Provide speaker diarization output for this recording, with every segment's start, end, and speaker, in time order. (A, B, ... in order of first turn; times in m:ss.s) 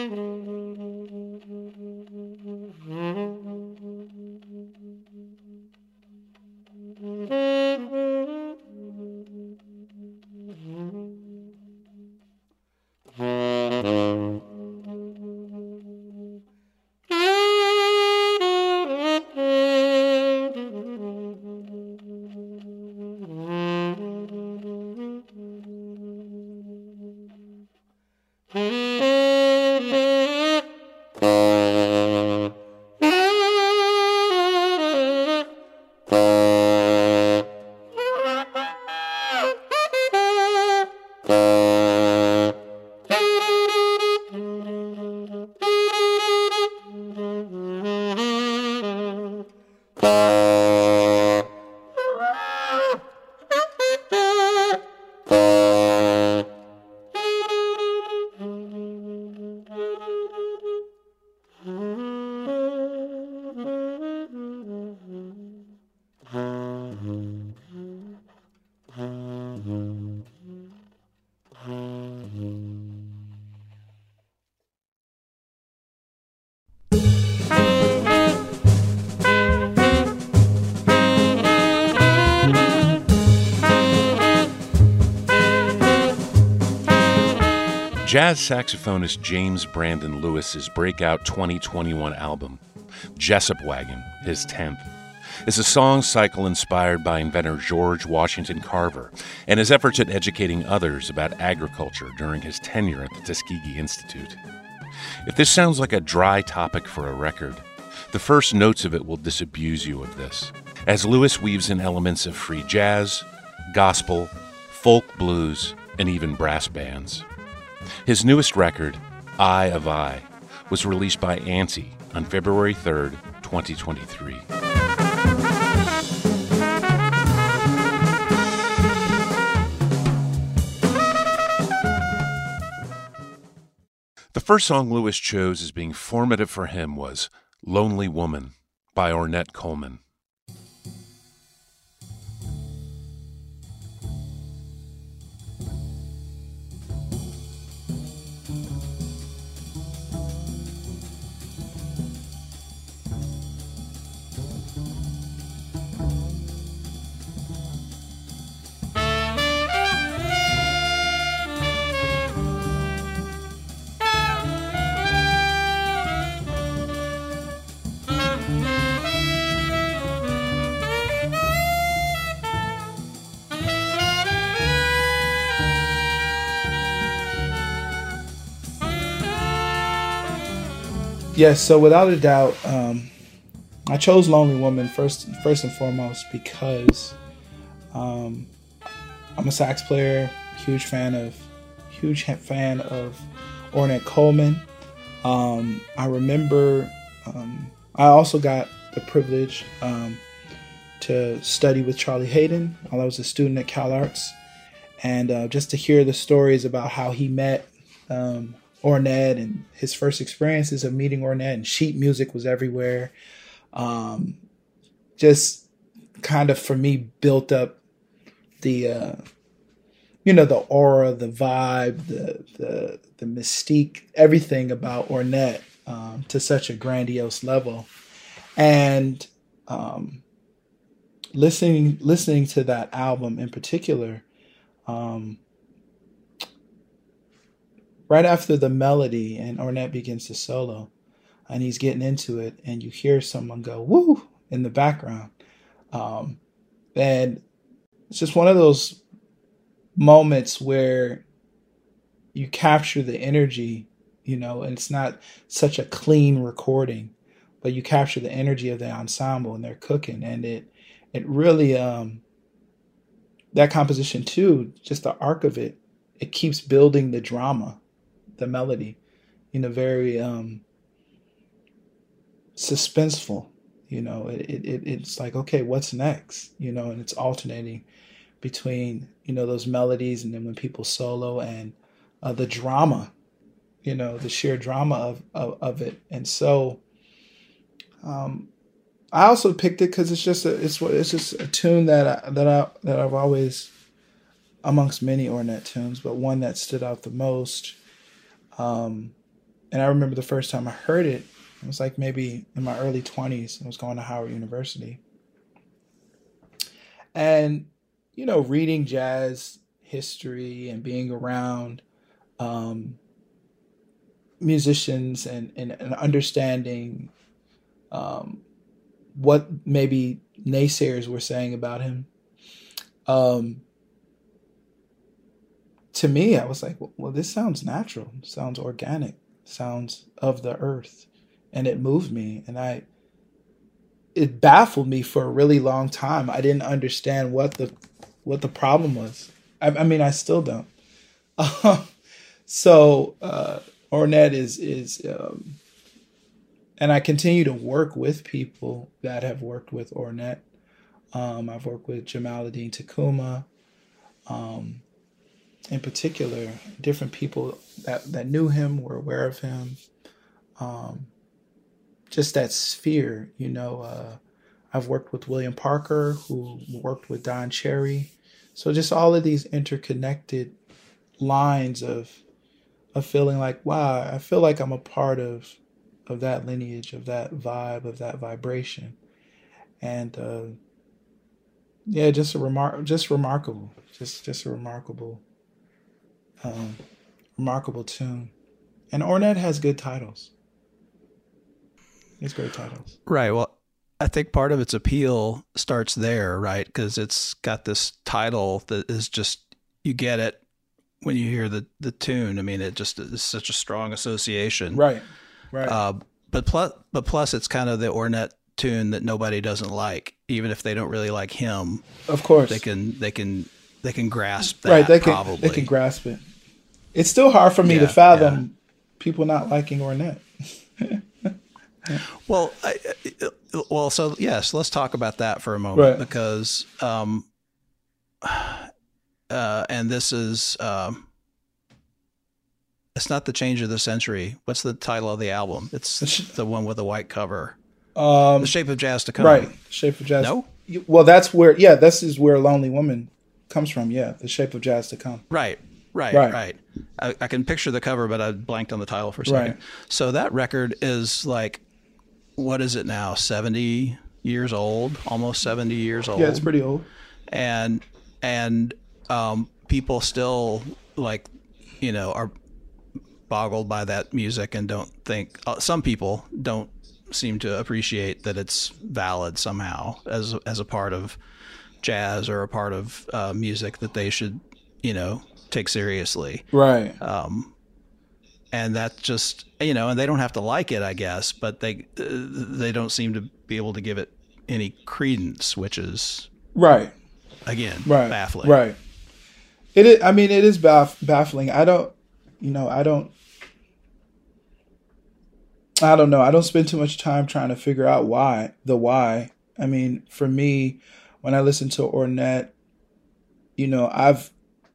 1:28.0-1:32.6 A
1:33.2-1:34.9 A
1:35.4-1:44.4 A
1:45.2-1:57.2 A
1:58.0-2:04.5 A
2:14.3-2:20.0 A
3:01.4-3:03.1 B
3:03.9-3:07.2 B
3:07.9-3:08.5 B
3:09.4-3:14.7 B
3:15.2-3:20.2 B
3:21.0-3:24.4 B
3:25.0-3:33.1 B
3:33.7-3:34.4 B
3:35.2-3:35.7 B
3:36.2-3:37.8 B
3:38.6-3:39.2 B
3:40.2-3:47.9 B
3:48.6-3:50.2 B
3:51.3-3:54.2 B
3:54.9-3:55.4 B
3:58.1-4:00.9 B
4:01.5-4:05.3 B
4:05.9-4:06.4 B
4:07.0-4:07.4 B
4:08.1-4:09.0 B
4:10.0-4:11.2 B
4:12.3-4:22.2 B
4:23.5-4:27.8 B
4:28.4-4:29.0 B
4:29.5-4:30.6 B
4:32.6-4:37.8 B
4:38.4-4:43.1 B
4:43.8-4:46.8 B
4:48.0-4:48.5 B
4:49.1-4:53.7 B
4:54.6-4:57.8 B
4:58.6-4:59.2 B
4:59.7-5:05.0 B
5:07.1-5:11.8 B
5:12.4-5:13.0 B
5:14.4-5:17.1 B
5:17.9-5:18.4 B
5:19.1-5:22.1 B
5:23.1-5:23.6 B
5:25.9-5:32.9 B
5:34.2-5:40.7 B
5:41.4-5:41.9 B
5:42.5-5:45.6 B
5:46.8-5:50.4 B
5:51.1-5:53.5 B
5:54.3-5:54.8 B
5:55.7-5:59.8 B
6:00.6-6:01.1 B
6:02.1-6:04.2 B
6:04.7-6:10.6 B
6:11.2-6:12.2 B
6:12.9-6:19.0 B
6:19.8-6:20.6 B
6:21.9-6:25.2 B
6:26.4-6:26.8 B
6:27.4-6:28.3 B
6:28.9-6:30.3 B
6:32.2-6:32.9 B
6:33.1-6:40.4 C
6:41.0-6:44.8 C
6:44.7-6:45.8 B
6:45.6-6:51.9 C
6:52.1-6:52.6 B
6:52.5-6:55.7 C
6:54.6-6:56.3 B
6:56.9-7:00.3 B
6:57.6-6:58.4 C
7:00.8-7:01.3 B
7:01.9-7:07.3 C
7:05.8-7:06.0 B
7:08.2-7:08.7 C
7:09.3-7:11.1 C
7:13.0-7:17.6 C
7:16.0-7:16.3 B
7:18.0-7:18.6 B
7:18.4-7:19.5 C
7:19.2-7:25.2 B
7:20.2-7:20.5 C
7:25.3-7:31.6 C
7:26.1-7:26.4 B
7:29.2-7:29.6 B
7:32.4-7:36.5 C
7:36.2-7:36.9 B
7:37.3-7:41.3 C
7:41.8-7:42.3 C
7:43.3-7:51.2 C
7:51.8-7:57.5 C
7:56.5-7:57.0 B
7:58.5-8:06.3 C
8:06.6-8:06.9 B
8:07.5-8:08.6 C
8:07.8-8:08.8 B
8:09.8-8:13.1 B
8:15.8-8:22.5 B
8:23.6-8:24.3 B